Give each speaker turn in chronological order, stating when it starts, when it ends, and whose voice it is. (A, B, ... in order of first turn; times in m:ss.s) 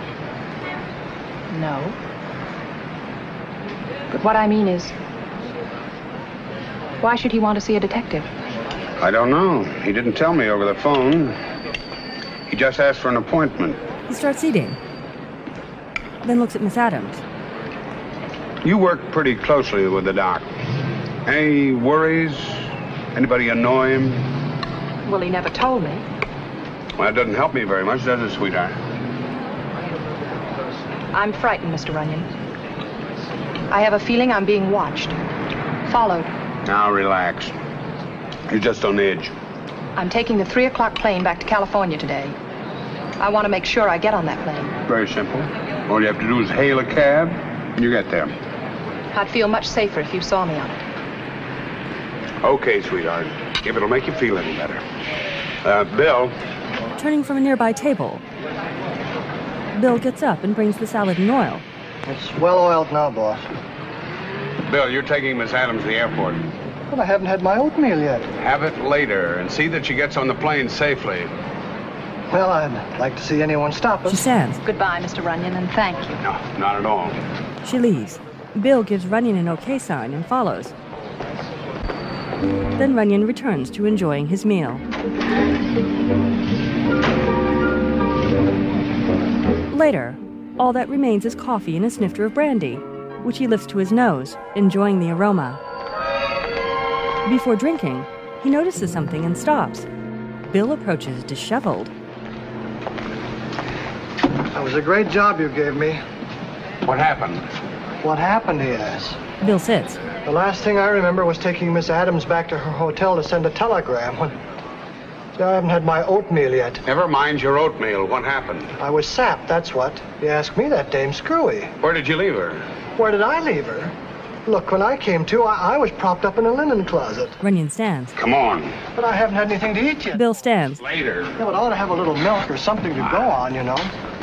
0:01.5-0:02.0 A
0:04.1-0:04.9 A
0:07.0-0:08.3 A
0:09.0-0:11.4 B
0:12.5-0:13.8 B
0:14.1-0:14.8 C
0:16.2-0:17.2 C
0:18.6-0:20.5 B
0:21.2-0:24.3 B
0:25.0-0:26.0 A
0:27.0-0:28.8 B
0:31.1-0:32.3 A
0:33.7-0:35.2 A
0:35.9-0:36.3 A
0:36.7-0:37.5 B
0:38.5-0:39.3 B
0:40.0-0:42.4 A
0:43.2-0:44.7 A
0:44.9-0:48.4 B
0:49.1-0:50.8 A
0:52.4-0:54.8 B
0:55.6-0:56.4 B
0:57.0-0:58.2 C
0:59.7-1:01.6 C
1:02.1-1:03.5 D
1:04.6-1:06.5 B
1:06.9-1:08.3 D
1:08.4-1:11.3 B
1:12.3-1:14.3 D
1:14.1-1:14.6 C
1:14.6-1:16.2 A
1:16.2-1:17.2 B
1:17.6-1:20.7 C
1:22.8-1:24.8 C
1:29.7-1:35.6 C
1:37.2-1:39.9 C
1:40.5-1:41.9 C
1:44.5-1:46.0 D
1:46.8-1:47.4 B
1:48.0-1:49.2 D
1:49.4-1:50.0 C
1:50.2-1:54.4 D
1:55.4-1:56.8 D
1:56.8-1:58.8 B
1:58.8-2:01.7 D
2:01.8-2:02.6 B
2:03.0-2:04.0 D
2:04.5-2:07.4 D
2:07.4-2:08.2 C
2:08.2-2:08.8 B
2:09.0-2:10.2 D
2:10.1-2:10.8 C
2:10.8-2:11.4 B
2:11.4-2:13.9 D